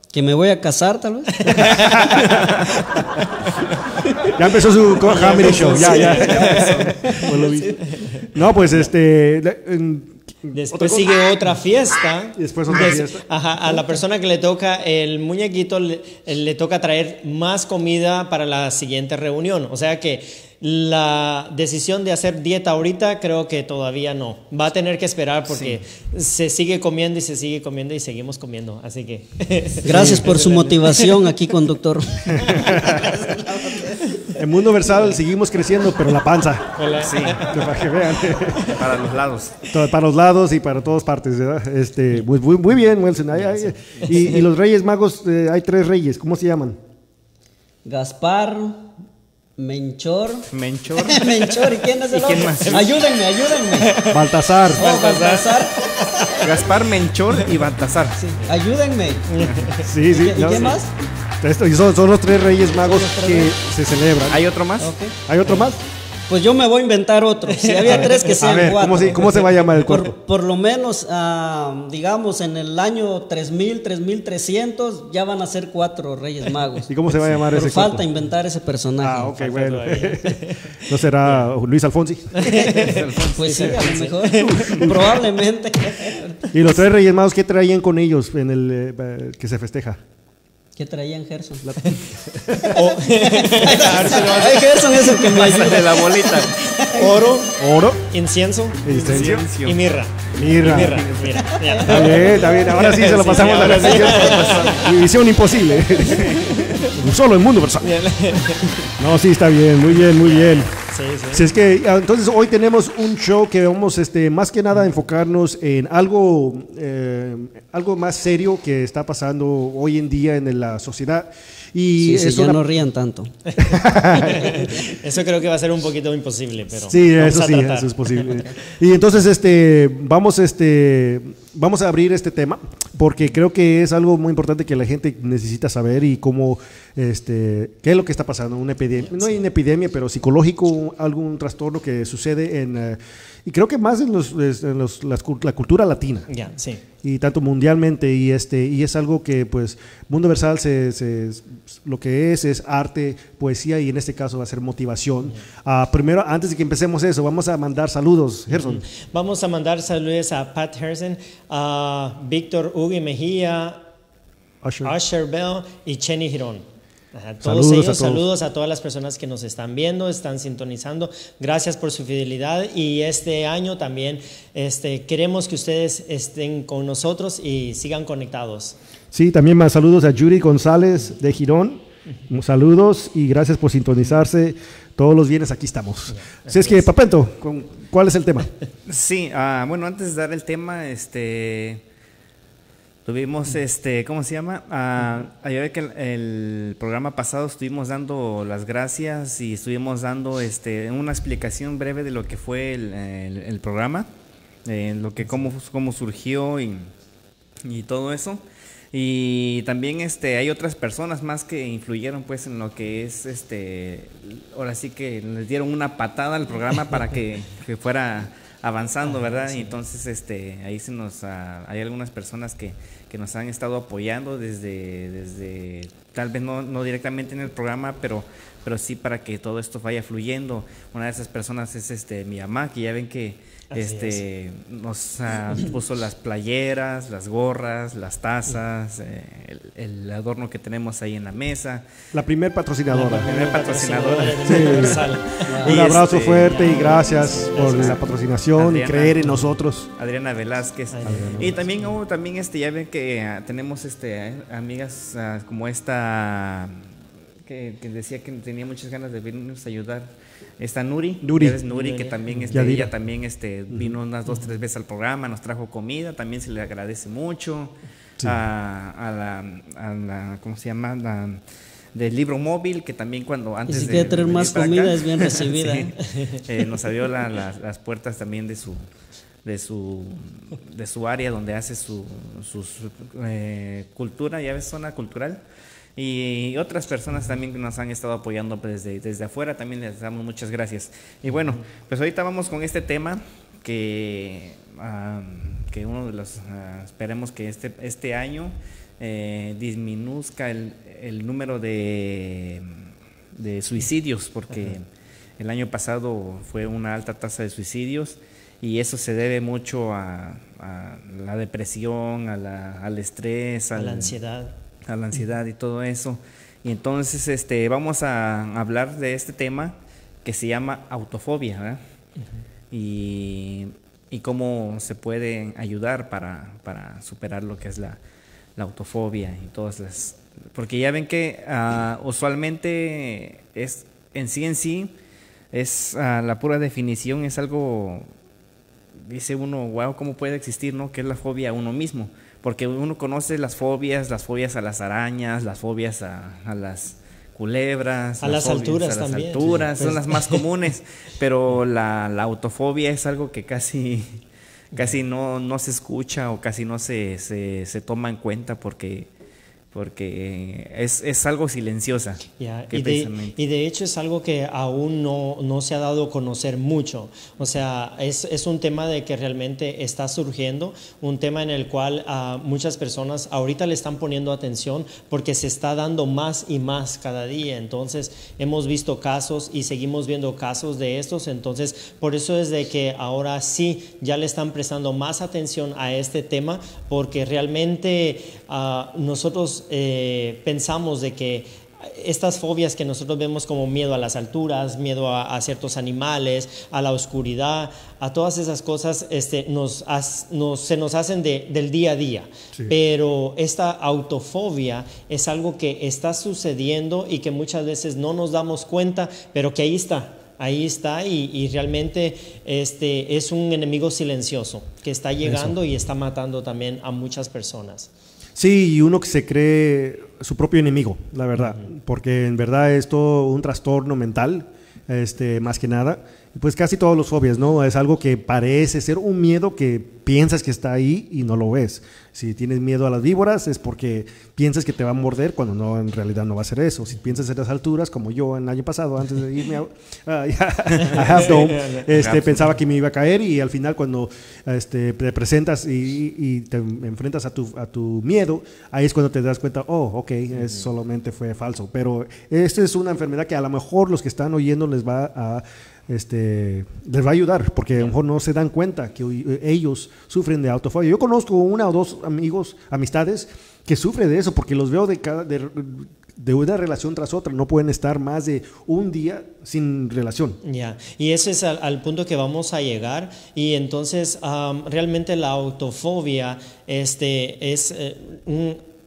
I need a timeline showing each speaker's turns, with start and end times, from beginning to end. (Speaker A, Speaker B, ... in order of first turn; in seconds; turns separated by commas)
Speaker A: 0.1-1.9, Speaker B: 1.4-4.2, Speaker C: 1.5-3.1, Speaker C: 4.2-11.2, Speaker B: 5.0-7.2, Speaker A: 5.3-7.8, Speaker D: 5.5-7.2, Speaker B: 8.0-8.2, Speaker B: 10.5-31.4, Speaker C: 12.4-13.2, Speaker A: 29.9-34.0, Speaker C: 29.9-30.3, Speaker C: 32.3-33.3, Speaker B: 32.4-32.9, Speaker C: 34.3-36.8, Speaker B: 36.8-37.5, Speaker D: 37.0-37.6, Speaker C: 37.4-38.8, Speaker D: 38.5-39.6, Speaker C: 39.7-46.8, Speaker A: 47.8-48.9, Speaker A: 49.6-53.9, Speaker D: 50.5-51.5, Speaker B: 52.1-53.0, Speaker D: 52.1-53.0, Speaker B: 53.7-54.2, Speaker C: 54.1-54.8, Speaker A: 54.7-56.5, Speaker B: 54.8-55.5, Speaker D: 54.8-55.2, Speaker D: 56.4-58.2, Speaker A: 58.2-59.3, Speaker B: 59.3-59.9, Speaker C: 59.8-60.8, Speaker A: 60.0-60.9, Speaker C: 61.4-64.4, Speaker B: 62.9-63.5, Speaker D: 64.3-65.0, Speaker A: 64.8-65.2, Speaker C: 65.3-65.8, Speaker A: 66.3-76.9, Speaker B: 67.5-68.3, Speaker C: 67.9-70.2, Speaker C: 76.9-78.1, Speaker D: 77.1-77.5, Speaker A: 77.5-79.4, Speaker C: 79.0-82.8, Speaker B: 79.4-80.8, Speaker B: 82.3-83.2, Speaker D: 82.8-84.2, Speaker A: 83.2-86.4, Speaker C: 83.5-85.2, Speaker B: 84.1-84.6, Speaker C: 86.5-90.0, Speaker A: 90.8-91.7, Speaker C: 91.6-92.8, Speaker B: 92.6-95.7, Speaker A: 93.0-97.3, Speaker D: 95.3-96.5, Speaker B: 96.8-104.9, Speaker C: 97.6-98.0, Speaker C: 98.8-99.5, Speaker D: 98.9-101.5, Speaker C: 100.3-101.0, Speaker A: 101.6-102.5, Speaker C: 101.8-108.0, Speaker D: 103.3-105.0, Speaker D: 106.0-106.7, Speaker B: 106.1-106.9, Speaker B: 107.8-108.9, Speaker C: 109.0-110.8, Speaker B: 110.0-111.5, Speaker C: 111.3-122.6, Speaker A: 122.0-123.3, Speaker B: 123.5-128.5, Speaker C: 123.6-124.9, Speaker C: 126.9-146.3, Speaker B: 139.0-139.3, Speaker B: 146.3-146.8, Speaker C: 147.0-158.8, Speaker B: 158.5-163.8, Speaker C: 164.6-164.9, Speaker B: 164.8-178.8, Speaker C: 167.4-168.2, Speaker C: 179.1-188.5, Speaker B: 186.1-186.9, Speaker D: 188.9-191.8, Speaker D: 193.1-204.1, Speaker D: 204.7-206.9, Speaker D: 207.7-241.9, Speaker B: 219.1-219.8, Speaker B: 233.7-234.2, Speaker C: 242.1-243.3, Speaker B: 242.9-245.7, Speaker D: 243.1-248.0, Speaker C: 244.4-249.9, Speaker A: 245.5-245.8, Speaker B: 246.4-248.0, Speaker D: 248.5-256.9, Speaker B: 250.9-251.6, Speaker C: 251.0-251.6, Speaker D: 257.5-271.4, Speaker C: 261.2-261.6, Speaker B: 261.7-262.5, Speaker C: 262.5-262.9, Speaker D: 271.9-278.9, Speaker A: 273.7-276.0, Speaker C: 273.7-274.7, Speaker B: 276.1-276.4, Speaker D: 279.4-285.4, Speaker D: 286.0-302.8, Speaker D: 303.4-304.9, Speaker D: 305.4-314.1, Speaker B: 313.8-314.5, Speaker D: 314.9-321.8, Speaker D: 322.7-328.0, Speaker D: 328.6-334.9, Speaker D: 335.5-338.1, Speaker D: 339.1-359.1, Speaker B: 348.2-350.4, Speaker D: 359.7-363.4, Speaker B: 362.4-417.9, Speaker C: 415.2-415.6, Speaker C: 418.4-470.4, Speaker B: 421.4-421.7, Speaker B: 440.9-441.9, Speaker D: 441.0-442.5, Speaker B: 470.4-478.6